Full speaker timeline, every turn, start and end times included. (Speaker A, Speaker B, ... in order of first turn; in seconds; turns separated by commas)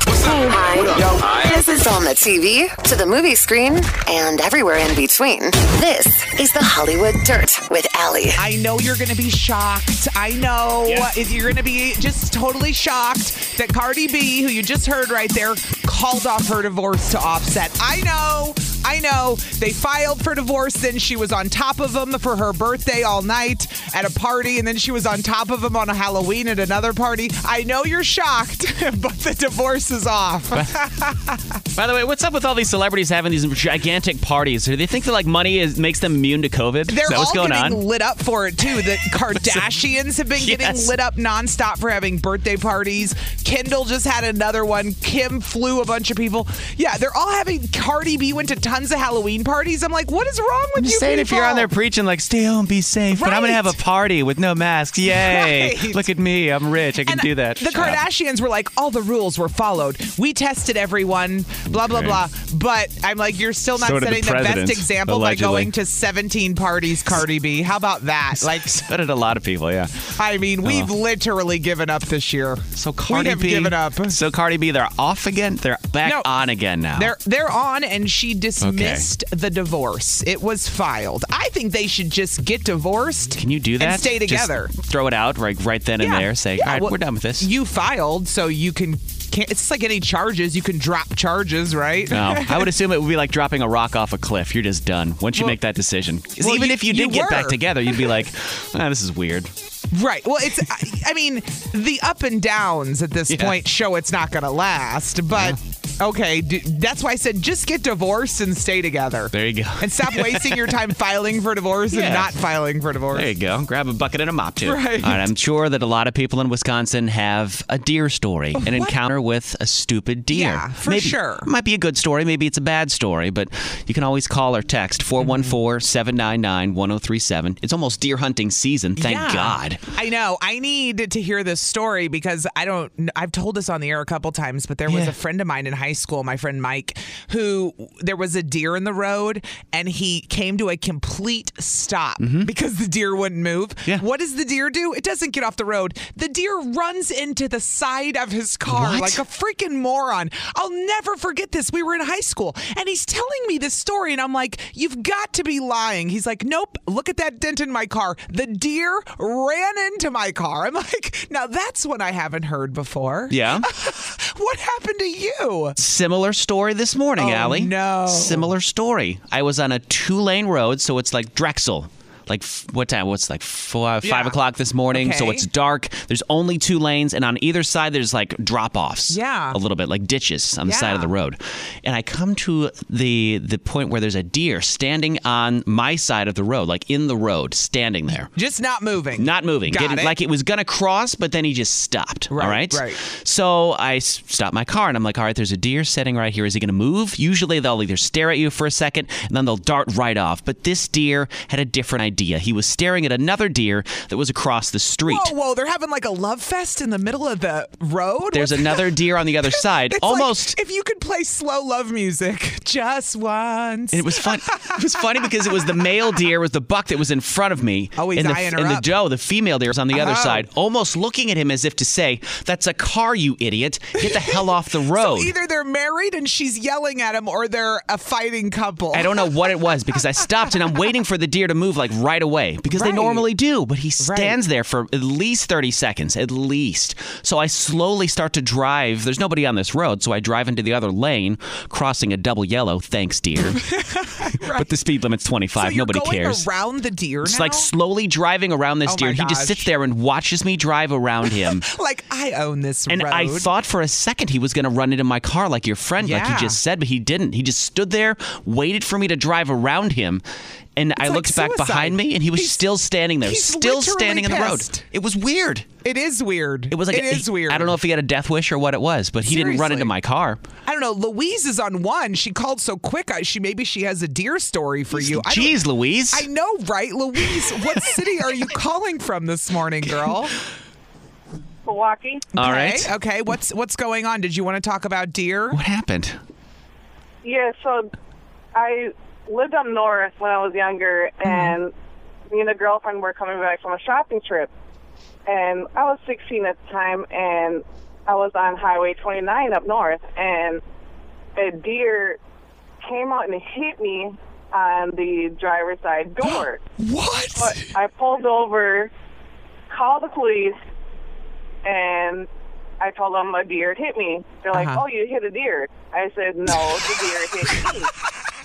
Speaker A: 0.3-8.4, Speaker B: 8.4-31.6, Speaker C: 31.7-37.8, Speaker B: 36.9-51.7, Speaker C: 40.4-40.9, Speaker C: 50.8-58.0, Speaker B: 53.1-53.8, Speaker B: 55.1-56.1, Speaker B: 57.1-68.8, Speaker C: 61.7-62.2, Speaker C: 63.8-65.7, Speaker C: 68.4-70.9, Speaker B: 70.2-74.2, Speaker C: 72.7-77.1, Speaker B: 76.0-76.3, Speaker B: 76.9-84.7, Speaker C: 78.6-79.1, Speaker C: 83.3-87.5, Speaker B: 86.0-92.7, Speaker C: 92.1-99.5, Speaker B: 96.4-98.1, Speaker B: 99.9-113.3, Speaker C: 103.3-103.5, Speaker C: 105.3-105.6, Speaker C: 109.3-110.8, Speaker C: 111.9-112.3, Speaker C: 113.1-129.8, Speaker B: 114.6-115.2, Speaker B: 118.5-118.9, Speaker B: 120.3-121.5, Speaker B: 125.2-125.5, Speaker B: 129.0-165.8, Speaker C: 134.8-135.2, Speaker C: 142.2-142.5, Speaker C: 148.7-149.2, Speaker C: 163.3-163.7, Speaker C: 165.8-188.3, Speaker B: 167.2-168.5, Speaker B: 174.0-174.4, Speaker B: 174.9-175.5, Speaker B: 179.1-179.6, Speaker B: 180.7-181.1, Speaker B: 188.3-190.1, Speaker C: 189.2-205.3, Speaker B: 192.3-193.0, Speaker B: 205.1-215.2, Speaker C: 208.3-210.6, Speaker C: 213.9-225.3, Speaker B: 217.9-218.9, Speaker B: 219.9-220.4, Speaker B: 224.0-224.4, Speaker B: 224.9-229.3, Speaker C: 228.9-243.7, Speaker B: 232.7-233.3, Speaker B: 234.0-234.4, Speaker B: 243.8-244.7, Speaker C: 244.3-246.4, Speaker B: 245.6-247.7, Speaker C: 247.2-251.7, Speaker B: 248.8-249.7, Speaker B: 251.4-253.5, Speaker C: 252.9-260.2, Speaker B: 256.0-256.6, Speaker C: 260.8-265.7, Speaker B: 261.0-262.7, Speaker B: 263.2-264.9, Speaker B: 265.8-267.7, Speaker C: 266.7-270.4, Speaker B: 269.2-269.9, Speaker B: 270.6-280.4, Speaker C: 274.9-276.3, Speaker D: 281.6-282.3, Speaker B: 282.3-285.6, Speaker C: 282.4-282.9, Speaker C: 285.5-286.2, Speaker D: 287.2-287.9, Speaker D: 288.5-291.7, Speaker B: 291.2-291.5, Speaker D: 292.3-294.5, Speaker D: 295.3-300.6, Speaker D: 301.4-302.2, Speaker D: 302.8-306.6, Speaker B: 306.3-307.7, Speaker D: 307.4-308.9, Speaker D: 309.7-310.6, Speaker D: 311.6-312.3, Speaker D: 312.8-317.9, Speaker B: 314.5-314.8